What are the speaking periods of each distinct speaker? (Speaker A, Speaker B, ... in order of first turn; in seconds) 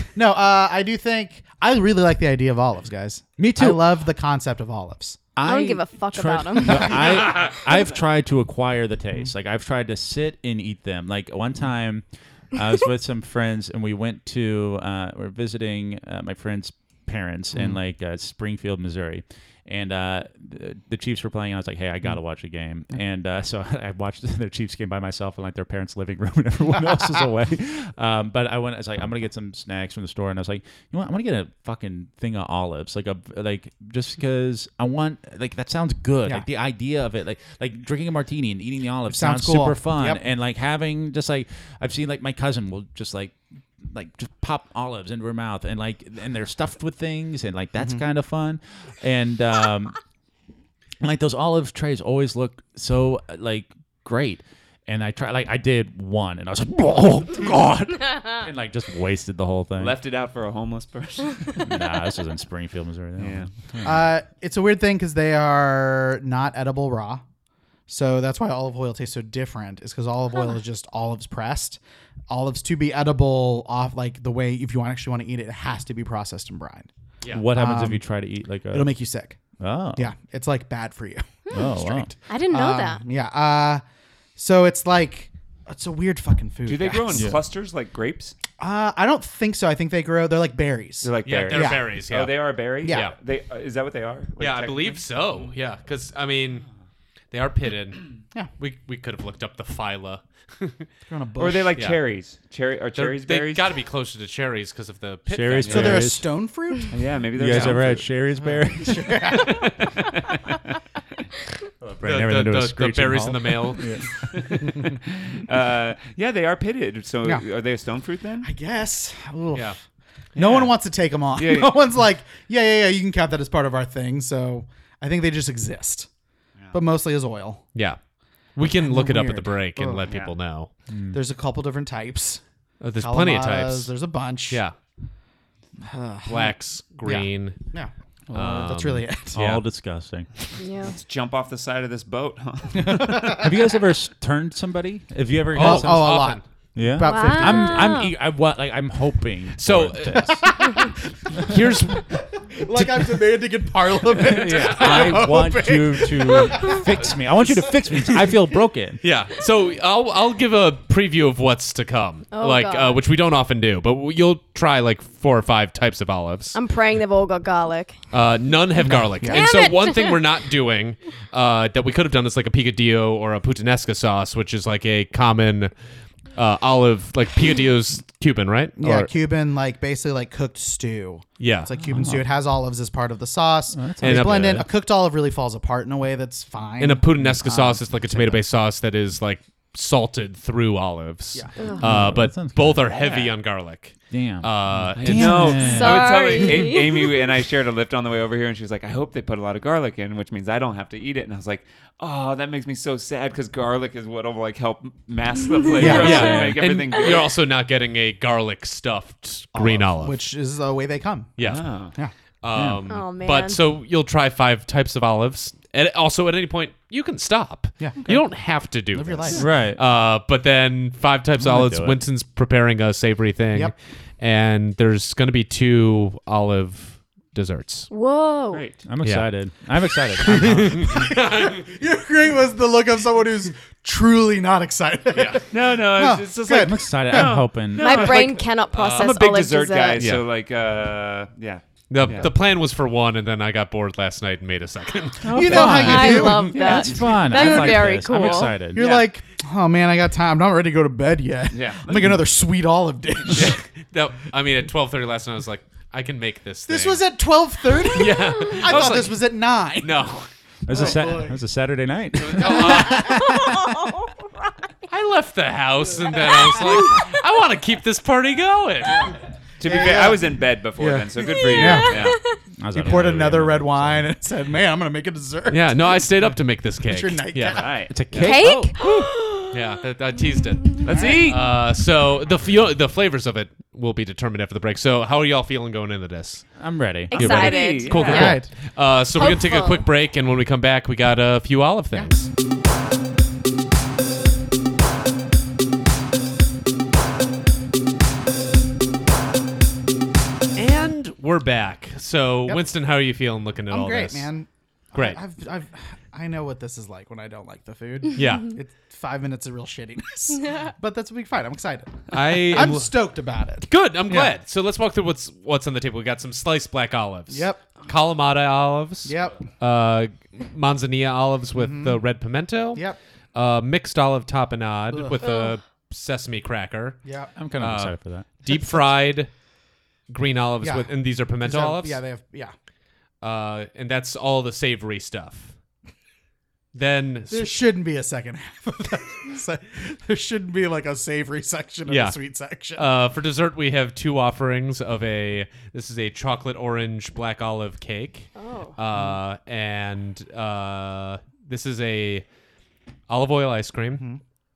Speaker A: 0.1-5.2, 17.5-17.8, 39.1-40.2, 47.8-48.0, 63.8-67.2, 67.9-76.9, 77.5-78.0, 78.7-79.4, 80.0-83.8, 84.4-87.4, 88.6-92.0, 92.8-93.1, 101.1-101.8, 105.7-107.8, 108.5-109.7, 118.4-119.8, 120.4-126.1, 126.7-127.6, 128.6-130.1, 131.1-132.4, 133.0-134.6, 135.8-139.4, 142.8-143.8, 145.5-148.0, 150.3-158.3, 168.8-169.5, 178.8-188.4, 191.3-192.0, 205.8-206.4, 209.6-211.4, 217.8-218.2, 218.9-219.5, 230.3-237.5, 245.3-248.0, 248.7-253.6, 256.7-260.1, 260.7-261.4, 269.6-272.2, 272.7-276.1, 276.9-277.7, 280.9-281.3, 288.0-288.5, 303.7-314.3, 317.3-317.8, 319.1-319.5, 321.6-322.1, 324.9-325.2, 327.0-327.3, 328.5-328.9, 330.6-332.5, 337.3-342.9
Speaker B: 3.4-4.0, 5.4-50.0, 51.0-60.0, 61.6-64.1, 77.3-79.0, 79.6-80.1, 81.5-82.1, 87.1-87.4, 105.3-106.3, 107.3-109.4, 111.8-114.2, 130.9-131.2, 139.3-140.3, 143.3-150.5, 154.3-159.0, 181.9-182.3, 183.7-184.7, 191.8-192.9, 194.1-196.6, 206.0-206.5, 212.5-212.8, 219.3-219.8, 221.4-222.0, 228.9-230.9, 236.5-238.1, 245.2-248.8, 260.7-263.8, 272.6-274.1, 277.9-278.8, 286.6-287.9, 327.4-328.3
Speaker C: 5.5-7.2, 82.3-83.0, 140.6-140.9, 147.0-148.2, 162.3-163.0, 166.5-168.0, 169.3-170.2, 191.6-191.8, 195.6-197.1, 205.7-206.5, 212.9-213.6, 227.9-228.6, 237.8-240.1, 245.5-248.6, 262.9-264.2, 266.6-267.1, 271.3-272.4, 278.1-279.6, 287.1-288.4, 289.1-289.9, 325.2-325.6, 348.4-348.8
Speaker D: 59.8-61.7, 63.2-63.5, 86.7-88.3, 91.0-95.5, 101.4-103.8, 105.6-106.1, 106.9-108.1, 109.6-110.5, 114.2-118.5, 120.3-120.8, 121.3-121.8, 130.1-130.3, 140.9-143.4, 192.9-193.3, 195.0-207.3, 211.4-212.0, 228.5-228.9, 235.5-242.3, 246.5-247.0, 251.5-252.2, 258.7-259.0, 269.6-272.2, 277.5-278.0, 280.8-281.4, 287.1-288.4
Speaker E: 77.2-77.5, 91.2-93.1, 94.4-96.7, 97.3-100.9, 103.0-106.0, 112.0-113.9, 128.6-130.7, 132.8-133.9, 134.5-134.7, 136.3-137.6, 138.3-139.6, 145.5-146.4, 149.6-150.5, 151.4-152.1, 154.2-155.4, 159.0-166.6, 168.1-175.7, 176.3-179.1, 181.4-181.7, 184.0-184.7, 186.8-195.6, 205.9-210.2, 211.4-211.8, 212.4-227.9, 229.0-229.5, 230.2-231.6, 235.1-235.4, 238.7-239.2, 241.9-245.8, 248.8-249.1, 253.3-257.1, 257.8-259.2, 259.8-260.9, 262.2-263.2, 264.9-269.2, 275.5-278.3, 279.5-286.5, 287.9-292.3, 300.6-304.3, 304.9-305.2, 308.2-308.6, 312.1-313.1, 313.7-327.0, 327.6-329.3, 330.1-332.0, 333.2-335.6, 336.7-337.5, 341.9-342.2, 342.8-352.2, 353.1-354.1